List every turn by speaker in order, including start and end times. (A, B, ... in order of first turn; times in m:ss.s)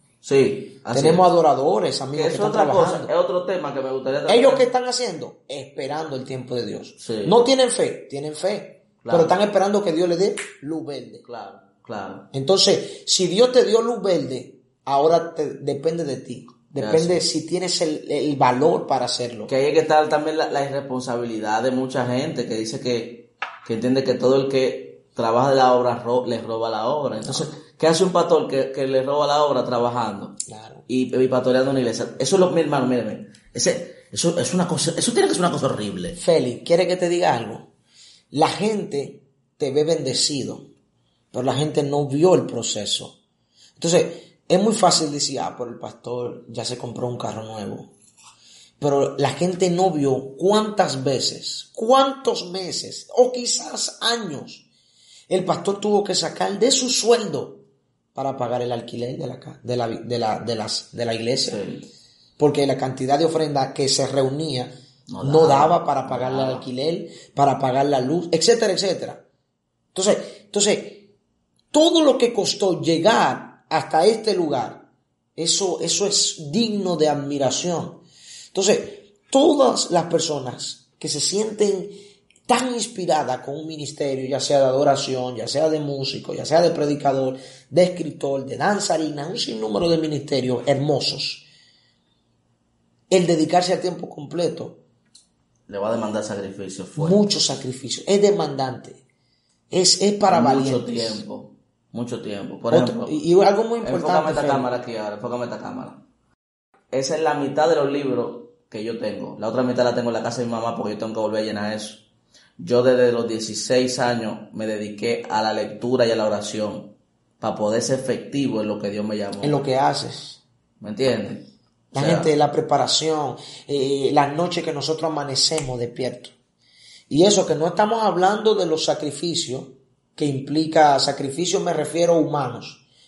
0:00.2-0:01.2 A
0:00.9-0:03.1 B
0:02.1-0:04.7 A
0:04.2-0:11.2 B
0:07.0-0:07.4 A
0:09.0-0:09.3 A
0:11.2-0:12.3 A
0:12.3-0:19.5 B
0:16.8-0:17.2 A
0:19.5-0:36.2 A
0:27.2-0:27.6 B
0:30.5-0:30.8 B
0:36.2-0:37.7 B
0:38.3-0:40.7 B
0:41.3-0:43.2 B
0:43.8-0:47.9 B
0:48.8-0:54.6 B
0:55.3-0:57.6 B
0:58.1-1:01.6 B
1:01.4-1:01.9 A
1:02.4-1:09.2 B
1:05.1-1:06.6 A
1:09.9-1:11.1 B
1:11.7-1:18.0 B
1:18.5-1:31.5 B
1:33.1-1:34.8 B
1:35.7-1:37.4 A
1:37.0-1:39.0 B
1:39.7-1:41.2 B
1:40.3-1:43.2 A
1:42.7-1:44.7 B
1:43.8-1:46.0 A
1:46.9-1:52.0 A
1:52.6-1:59.6 A
1:59.4-2:00.4 B
2:00.8-2:02.3 A
2:01.9-2:06.3 B
2:07.1-2:12.8 B